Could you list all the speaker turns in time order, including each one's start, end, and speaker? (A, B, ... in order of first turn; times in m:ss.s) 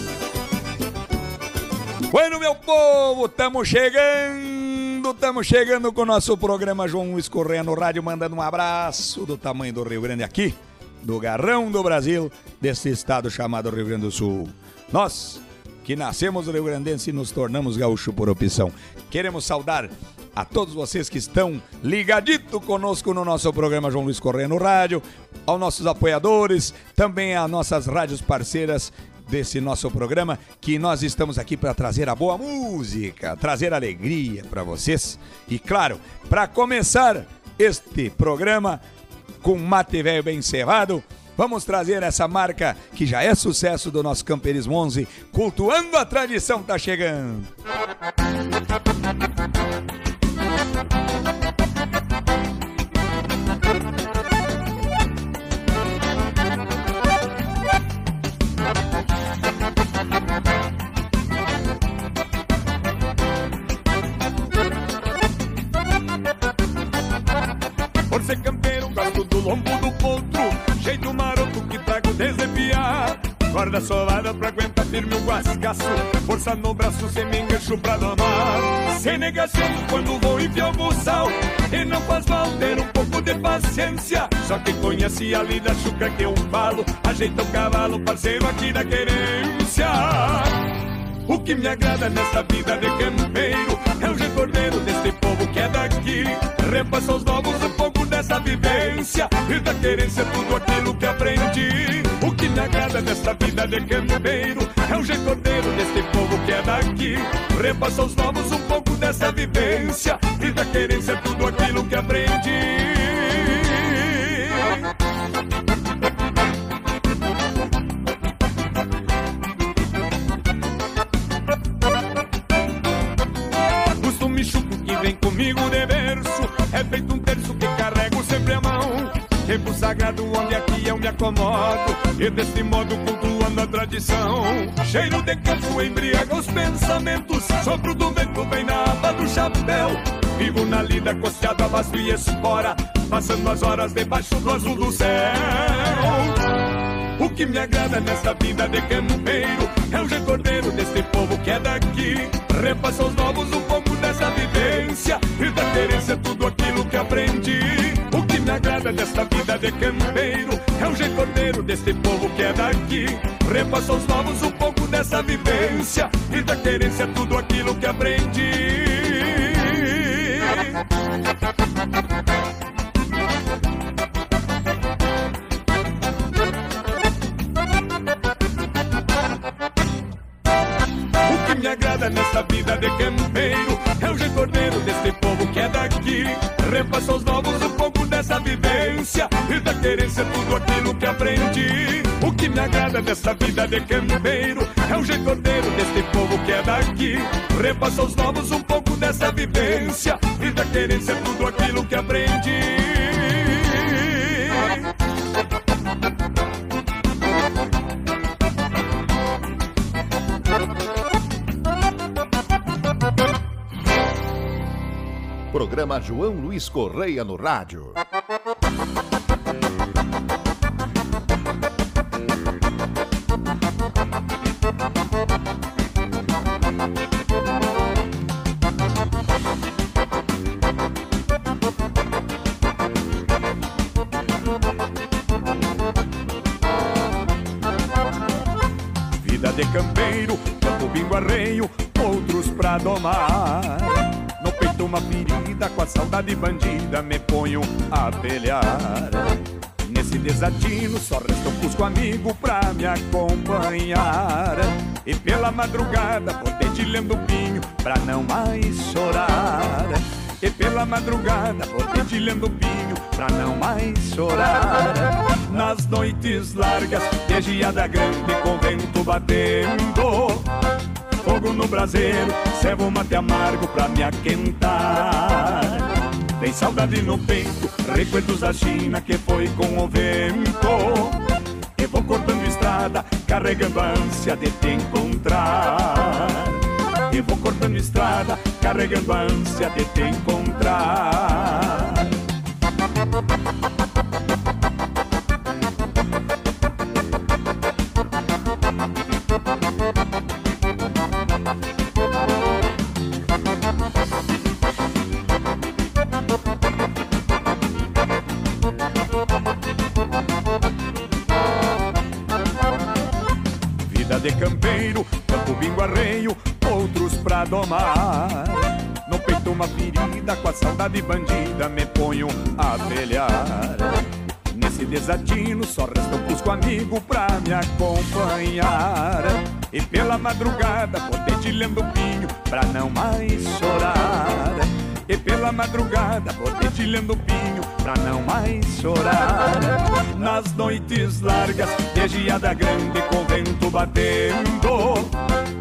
0:02.1-0:38.8 A
0:39.4-0:47.5 A
1:08.1-1:30.6 B
1:31.3-1:54.6 B
2:03.9-2:26.4 B
2:27.2-2:50.7 B
3:01.2-3:24.6 B
3:35.5-3:38.0 C
3:59.2-4:03.6 B
4:01.5-4:02.0 A
4:04.4-4:05.0 B
4:04.8-4:09.2 A
4:05.8-4:08.6 B
4:09.9-4:14.8 A
4:10.0-4:11.4 B
4:12.5-4:13.3 B
4:13.8-4:14.2 B
4:15.0-4:18.2 B
4:17.5-4:18.8 A
4:18.8-4:19.9 B
4:20.4-4:30.4 B
4:31.2-4:35.8 B
4:36.4-4:41.2 B
4:41.8-4:52.1 B
5:13.9-5:18.3 B
5:13.9-5:14.5 A
5:15.1-5:15.6 A
5:19.3-5:21.6 B
5:19.8-5:20.1 A
5:21.6-5:23.9 A
5:22.4-5:22.7 B
5:24.6-5:30.0 A
5:25.1-5:25.4 B
5:26.0-5:26.7 B
5:29.7-5:34.5 B
5:35.1-5:45.1 B
5:36.6-5:37.3 A